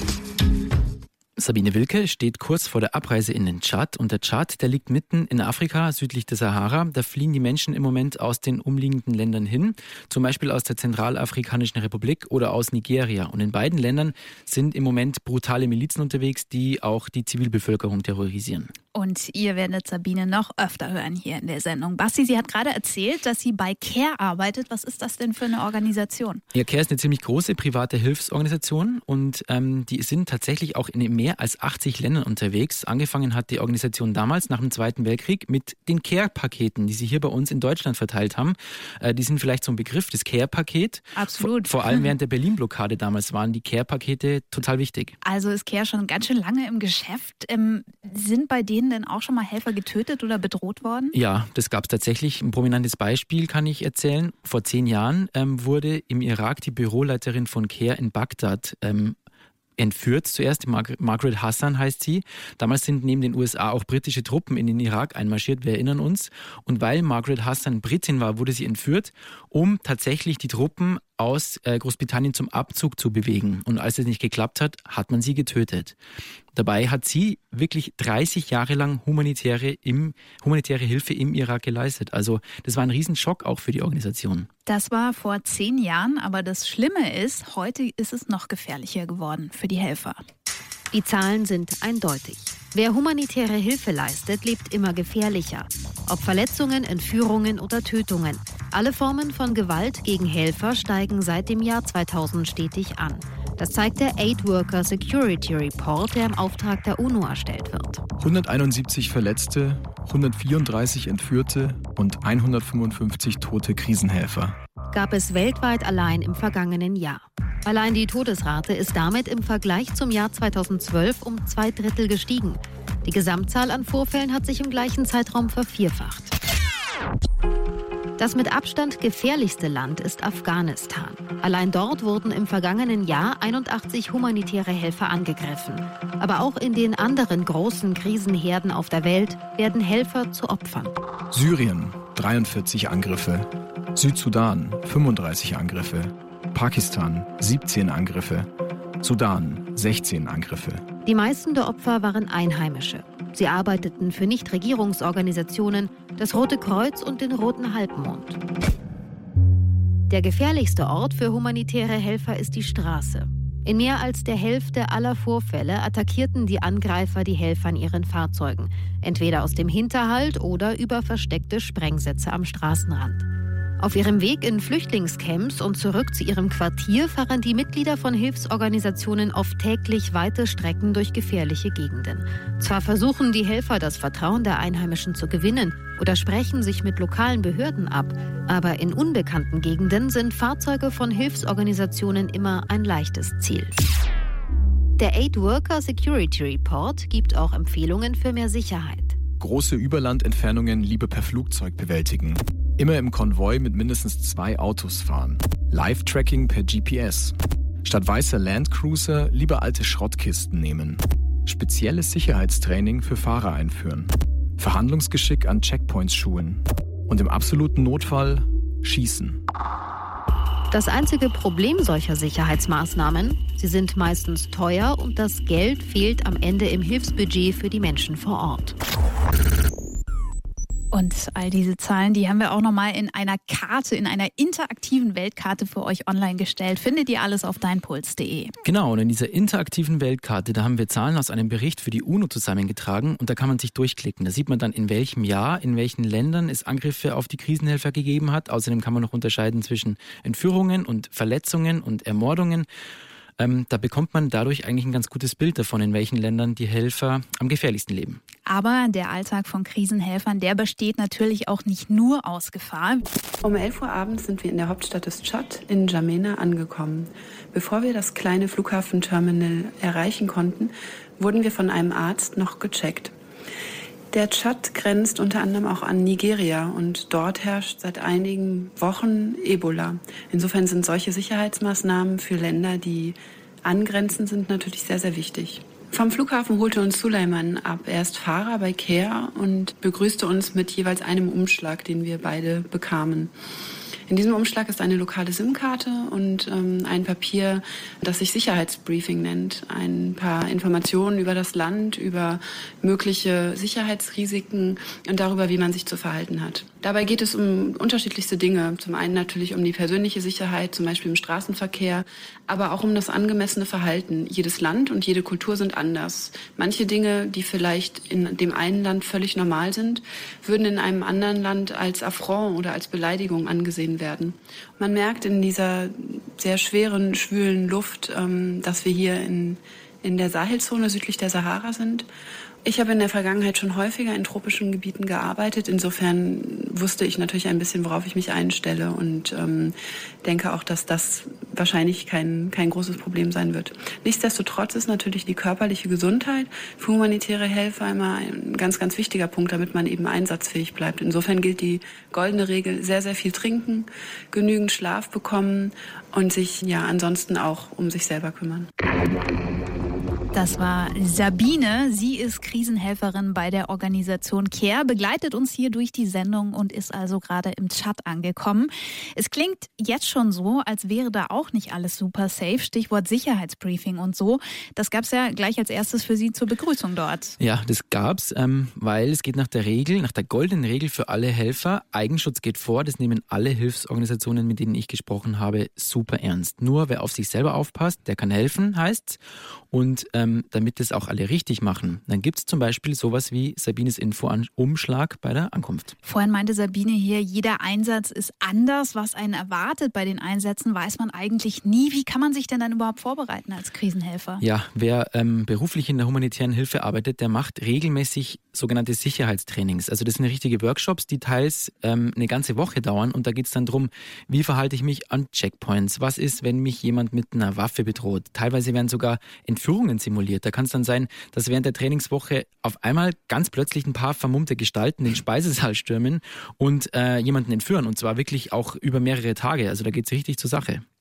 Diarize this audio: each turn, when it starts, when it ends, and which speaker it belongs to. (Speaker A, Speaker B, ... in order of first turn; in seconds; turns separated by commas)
Speaker A: 1.4-18.7, Speaker B: 18.9-26.4, Speaker A: 26.5-45.1, Speaker B: 41.1-42.1, Speaker B: 45.2-51.1, Speaker A: 51.1-59.1, Speaker A: 59.8-76.0, Speaker A: 76.5-84.5, Speaker B: 84.7-90.2, Speaker C: 90.9-108.0, Speaker D: 108.2-114.6, Speaker C: 114.9-126.3, Speaker C: 128.2-140.9, Speaker D: 141.3-148.5, Speaker D: 149.0-150.9, Speaker C: 151.0-158.4, Speaker C: 160.1-173.3, Speaker C: 173.8-193.8, Speaker C: 195.0-199.2, Speaker D: 199.4-219.4, Speaker C: 220.7-228.8, Speaker B: 230.9-238.5, Speaker A: 238.6-252.7, Speaker A: 253.4-258.2, Speaker B: 258.4-263.0, Speaker E: 263.4-273.1, Speaker E: 274.1-293.3, Speaker E: 294.1-332.1, Speaker E: 332.6-358.7, Speaker B: 360.3-377.4, Speaker A: 377.4-389.2, Speaker A: 389.7-395.9, Speaker B: 396.0-404.4, Speaker A: 404.4-430.8